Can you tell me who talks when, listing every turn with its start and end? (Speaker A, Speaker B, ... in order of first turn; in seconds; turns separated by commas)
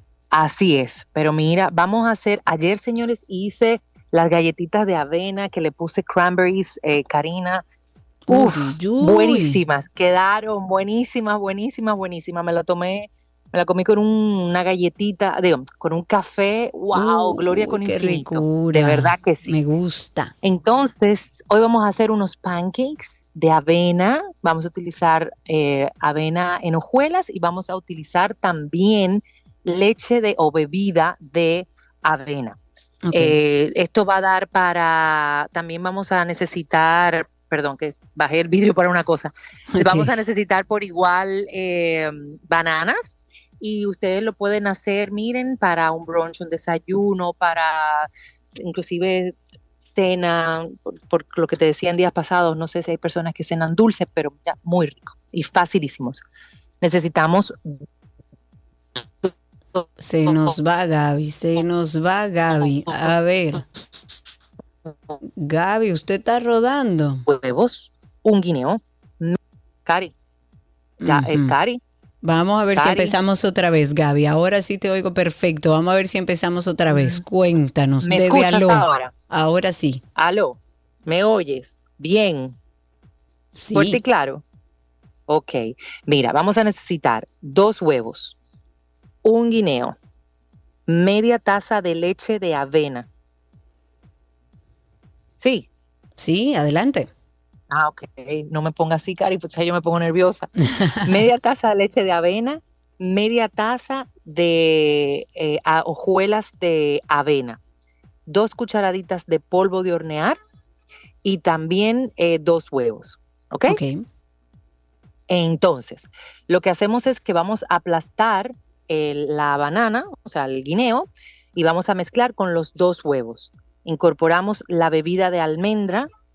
Speaker A: 0.3-7.6, Speaker B: 8.3-9.6, Speaker A: 8.3-19.6, Speaker B: 16.9-20.3, Speaker A: 20.4-32.6, Speaker B: 33.0-33.4, Speaker A: 33.1-56.2, Speaker B: 39.7-40.1, Speaker A: 56.8-57.8, Speaker A: 59.2-59.8, Speaker B: 60.0-63.6, Speaker B: 65.4-67.2, Speaker A: 67.3-70.1, Speaker B: 71.0-71.5, Speaker A: 71.0-71.8, Speaker B: 72.2-80.0, Speaker A: 72.8-73.1, Speaker A: 76.9-77.2, Speaker A: 78.0-79.1, Speaker A: 80.2-82.5, Speaker B: 83.5-84.0, Speaker A: 83.7-84.4, Speaker A: 85.3-88.3, Speaker A: 89.2-90.0, Speaker A: 90.9-93.1, Speaker A: 95.4-95.7, Speaker B: 96.2-97.1, Speaker A: 97.7-100.5, Speaker A: 101.0-107.6, Speaker A: 108.3-110.4, Speaker A: 111.2-113.8, Speaker B: 113.7-114.0, Speaker A: 115.3-126.1